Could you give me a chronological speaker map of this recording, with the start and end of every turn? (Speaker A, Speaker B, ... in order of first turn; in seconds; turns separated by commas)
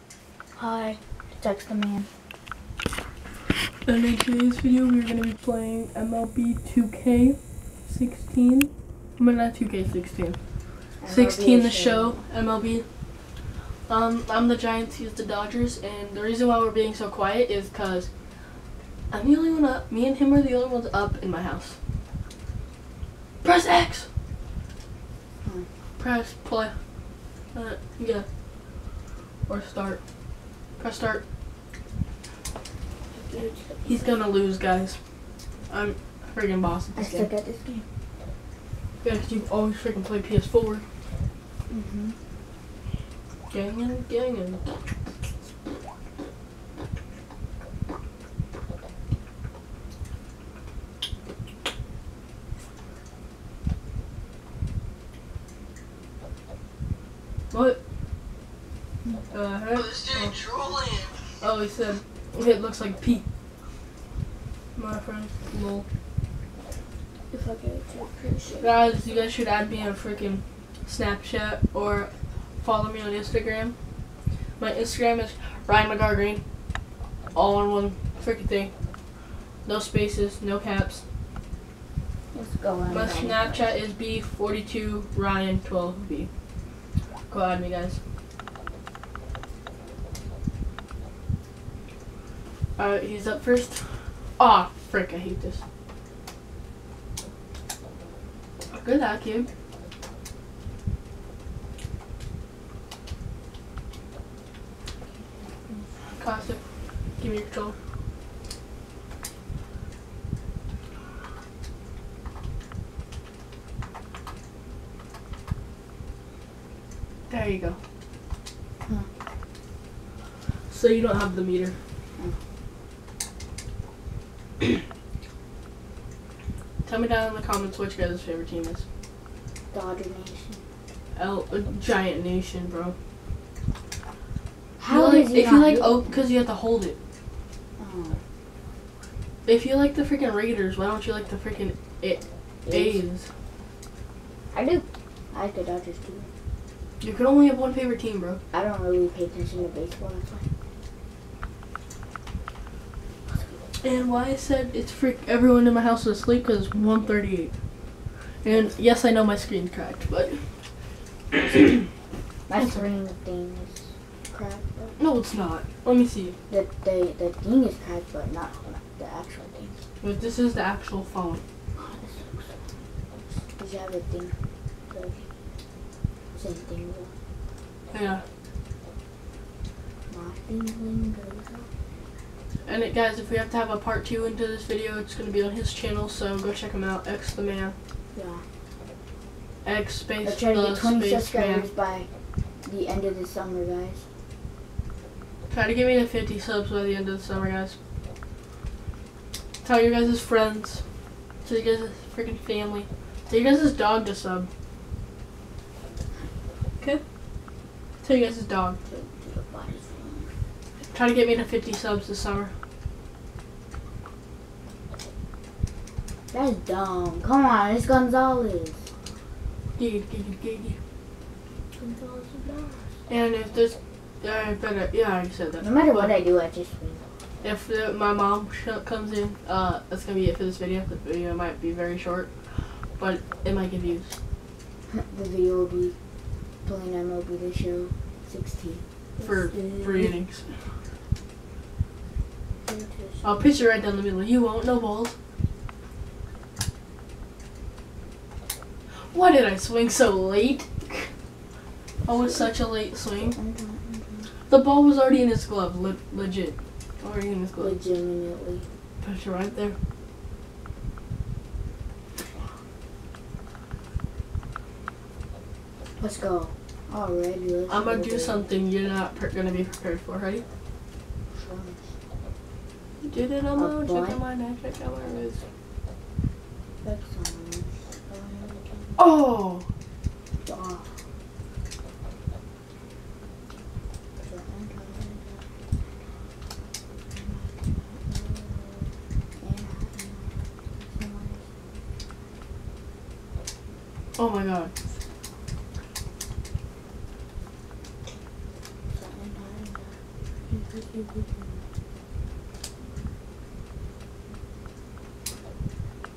Speaker A: 0.6-2.1, Speaker B: 3.9-10.4, Speaker A: 11.0-12.2, Speaker B: 11.1-12.8, Speaker B: 13.9-18.1, Speaker B: 19.1-21.8, Speaker B: 23.4-24.1, Speaker B: 26.0-26.7, Speaker B: 27.5-28.2, Speaker B: 29.5-30.0, Speaker B: 30.8-31.2, Speaker A: 33.1-33.8, Speaker B: 33.9-35.0, Speaker B: 35.7-37.3, Speaker A: 37.0-37.9, Speaker B: 39.0-40.8, Speaker A: 41.7-42.2, Speaker B: 43.5-44.6, Speaker B: 57.5-57.8, Speaker B: 59.3-60.5, Speaker B: 61.4-63.2, Speaker B: 64.8-65.8, Speaker A: 67.3-68.8, Speaker B: 68.6-72.1, Speaker B: 72.6-73.8, Speaker B: 74.6-76.4, Speaker B: 77.3-78.7, Speaker B: 79.7-81.0, Speaker A: 82.3-83.7, Speaker B: 82.9-86.3, Speaker B: 87.3-88.0, Speaker B: 92.8-93.9, Speaker B: 94.4-95.6, Speaker B: 98.7-99.5, Speaker A: 105.7-105.9, Speaker B: 106.2-106.6, Speaker B: 107.2-107.8, Speaker B: 117.3-117.8, Speaker B: 120.7-121.8, Speaker B: 126.8-128.8, Speaker A: 129.7-130.6, Speaker B: 131.2-132.9, Speaker A: 134.8-136.2, Speaker B: 134.9-137.0, Speaker A: 137.8-138.2, Speaker B: 139.5-143.3, Speaker A: 142.7-143.1, Speaker A: 144.5-146.3, Speaker B: 147.0-148.4, Speaker A: 148.5-150.5, Speaker A: 153.3-153.6, Speaker B: 153.8-157.5, Speaker B: 158.4-160.4, Speaker B: 161.3-161.8, Speaker A: 162.5-165.0, Speaker B: 165.0-166.4, Speaker A: 166.5-169.8, Speaker B: 170.0-171.4, Speaker A: 171.8-172.6, Speaker A: 173.5-174.3, Speaker A: 174.9-175.3, Speaker A: 176.3-177.2, Speaker B: 177.9-178.2, Speaker A: 180.1-181.7, Speaker B: 182.7-187.8, Speaker A: 188.1-188.4, Speaker B: 189.7-191.7, Speaker A: 190.2-192.1, Speaker A: 192.7-194.1, Speaker B: 195.5-197.8, Speaker B: 199.6-200.8, Speaker B: 201.4-204.5, Speaker B: 208.0-208.8, Speaker A: 208.9-210.3, Speaker B: 210.9-212.5, Speaker A: 216.3-218.8, Speaker B: 219.8-220.8, Speaker A: 221.8-222.9, Speaker B: 223.1-226.2, Speaker A: 225.6-227.0, Speaker B: 227.4-232.3, Speaker B: 233.0-234.2, Speaker A: 234.9-236.0, Speaker A: 236.7-240.2, Speaker B: 239.2-240.6, Speaker A: 242.6-243.6, Speaker B: 243.2-245.2, Speaker B: 249.1-251.1, Speaker A: 252.1-252.5, Speaker B: 252.1-253.3, Speaker A: 253.3-254.3, Speaker B: 254.5-257.8, Speaker A: 257.6-258.7, Speaker B: 259.0-259.8, Speaker A: 266.0-268.5, Speaker B: 267.7-270.4, Speaker A: 271.3-271.9, Speaker B: 273.0-275.4, Speaker A: 273.6-274.2, Speaker A: 276.8-279.1, Speaker B: 279.0-279.7, Speaker A: 280.4-280.9, Speaker A: 284.2-285.4, Speaker A: 287.1-291.4, Speaker B: 294.2-294.7, Speaker A: 298.9-301.6